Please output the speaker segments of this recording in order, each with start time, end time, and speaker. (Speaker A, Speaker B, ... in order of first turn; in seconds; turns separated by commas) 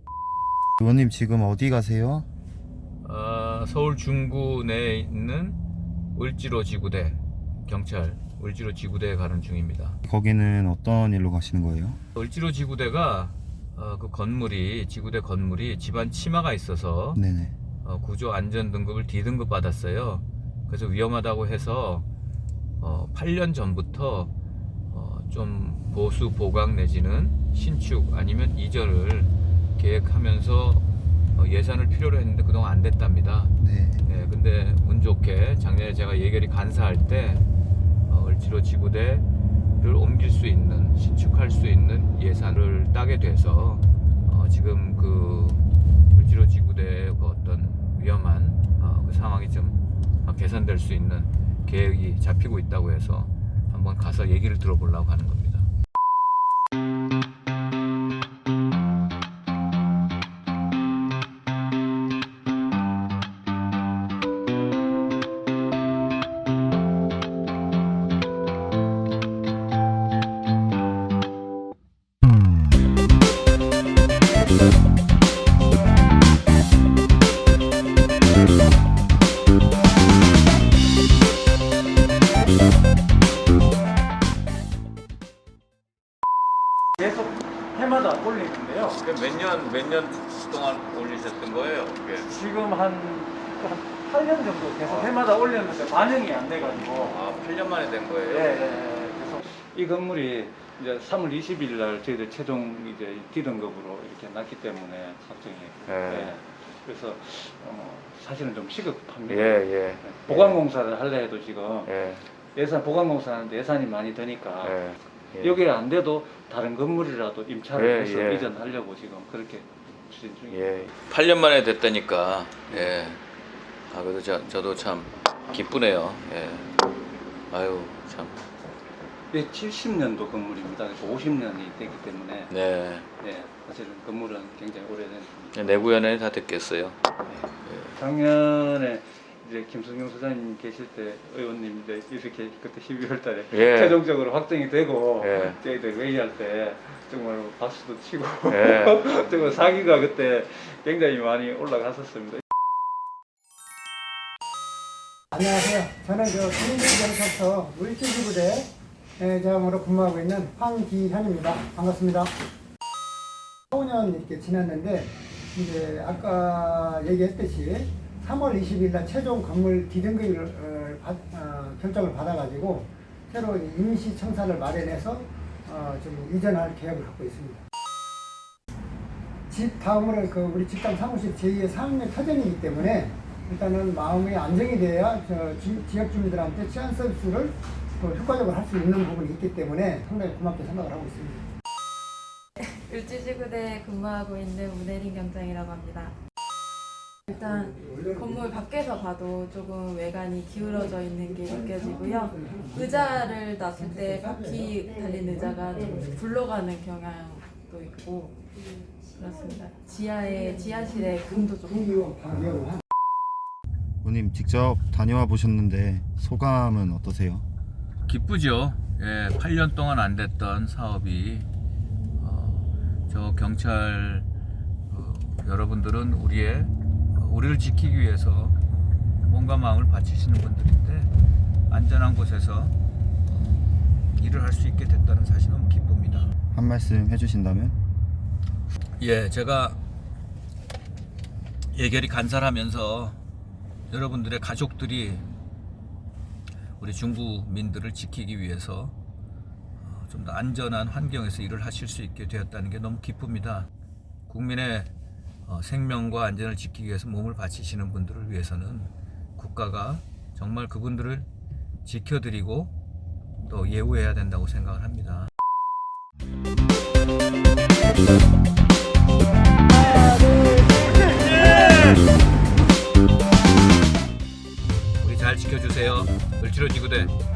Speaker A: 0.8-2.2, Speaker B: 3.0-5.6, Speaker B: 6.1-10.0, Speaker A: 10.0-12.0, Speaker B: 12.1-17.2, Speaker A: 17.1-17.5, Speaker B: 17.8-22.1, Speaker B: 22.8-24.3, Speaker B: 24.9-37.5, Speaker A: 33.6-34.0, Speaker B: 38.1-39.2, Speaker B: 39.8-45.6, Speaker B: 46.1-55.7, Speaker C: 87.0-89.0, Speaker B: 88.9-92.3, Speaker C: 92.2-97.2, Speaker B: 94.8-95.1, Speaker B: 97.0-98.6, Speaker C: 98.3-111.9, Speaker B: 105.8-106.3, Speaker B: 109.3-110.6, Speaker B: 111.8-112.2, Speaker C: 112.5-114.8, Speaker B: 114.6-115.6, Speaker C: 115.4-120.8, Speaker B: 117.7-118.5, Speaker B: 120.5-123.2, Speaker C: 122.7-122.9, Speaker B: 123.9-126.7, Speaker B: 127.5-128.4, Speaker C: 129.3-132.5, Speaker B: 132.5-133.1, Speaker C: 133.2-135.8, Speaker B: 135.5-137.0, Speaker B: 137.6-137.9, Speaker C: 137.9-152.4, Speaker B: 143.5-144.0, Speaker B: 145.2-145.6, Speaker B: 148.5-149.1, Speaker D: 155.3-162.3, Speaker D: 163.7-177.6, Speaker D: 179.5-191.5, Speaker E: 192.6-196.1, Speaker D: 197.3-198.7, Speaker E: 197.3-197.6, Speaker E: 198.2-208.4, Speaker D: 200.6-206.3, Speaker E: 209.0-212.0, Speaker D: 210.9-212.8, Speaker A: 214.0-217.4, Speaker B: 218.1-221.5, Speaker B: 222.2-224.2, Speaker B: 224.9-231.1, Speaker B: 231.7-232.7, Speaker B: 233.2-236.3, Speaker A: 236.5-237.8, Speaker B: 239.0-239.8, Speaker B: 241.7-243.2, Speaker B: 243.9-245.2, Speaker B: 246.8-248.9, Speaker B: 249.8-253.7, Speaker B: 254.3-254.9, Speaker B: 255.4-261.3, Speaker B: 261.8-262.7, Speaker B: 263.4-265.3, Speaker B: 270.6-272.0, Speaker B: 275.0-277.1